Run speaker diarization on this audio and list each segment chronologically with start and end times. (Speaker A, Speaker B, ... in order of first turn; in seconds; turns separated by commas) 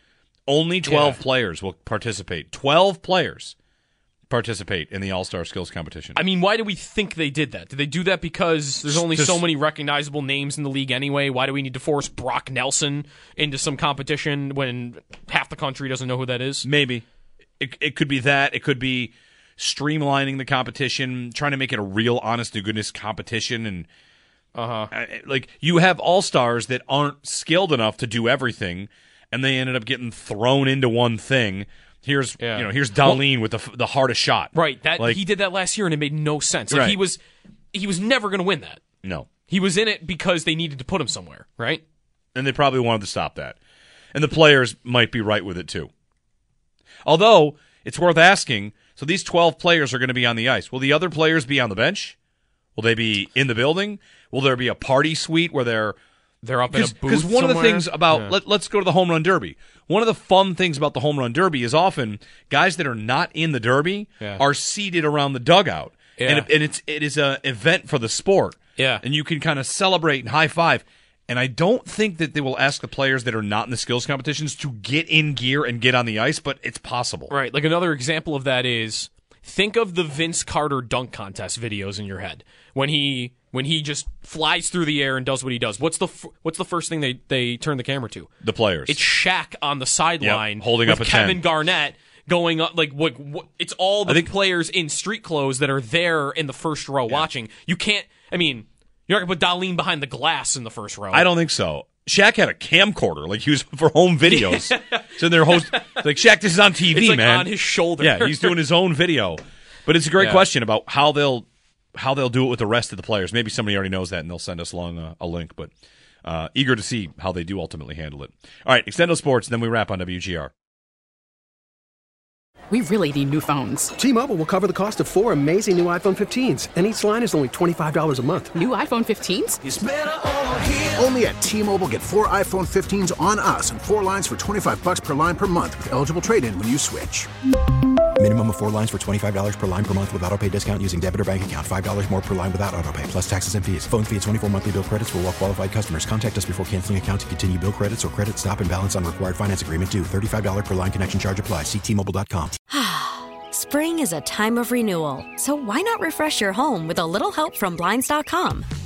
Speaker A: 0.5-3.5, Speaker B: 0.8-1.2, Speaker A: 4.3-6.2, Speaker B: 6.1-16.7, Speaker A: 8.9-9.4, Speaker A: 16.6-17.0, Speaker A: 17.6-23.9, Speaker B: 24.5-24.9, Speaker A: 24.9-35.2, Speaker B: 32.4-33.2, Speaker B: 34.5-37.2, Speaker A: 36.7-37.0, Speaker B: 37.7-38.8, Speaker A: 39.0-39.3, Speaker B: 39.5-41.8, Speaker A: 42.3-43.6, Speaker A: 44.1-45.9, Speaker A: 47.0-52.1, Speaker A: 52.8-56.0, Speaker B: 56.4-58.3, Speaker A: 56.7-77.3, Speaker B: 66.2-66.5, Speaker B: 68.8-69.0, Speaker B: 77.3-88.3, Speaker A: 88.4-89.0, Speaker B: 88.9-101.3, Speaker A: 90.2-91.4, Speaker A: 101.1-115.7, Speaker B: 104.2-106.0, Speaker B: 106.8-108.6, Speaker B: 110.2-110.4, Speaker A: 116.2-120.5, Speaker C: 122.7-124.0, Speaker D: 124.0-128.6, Speaker C: 128.6-129.6, Speaker E: 130.9-137.3, Speaker F: 138.2-152.6, Speaker G: 152.7-158.7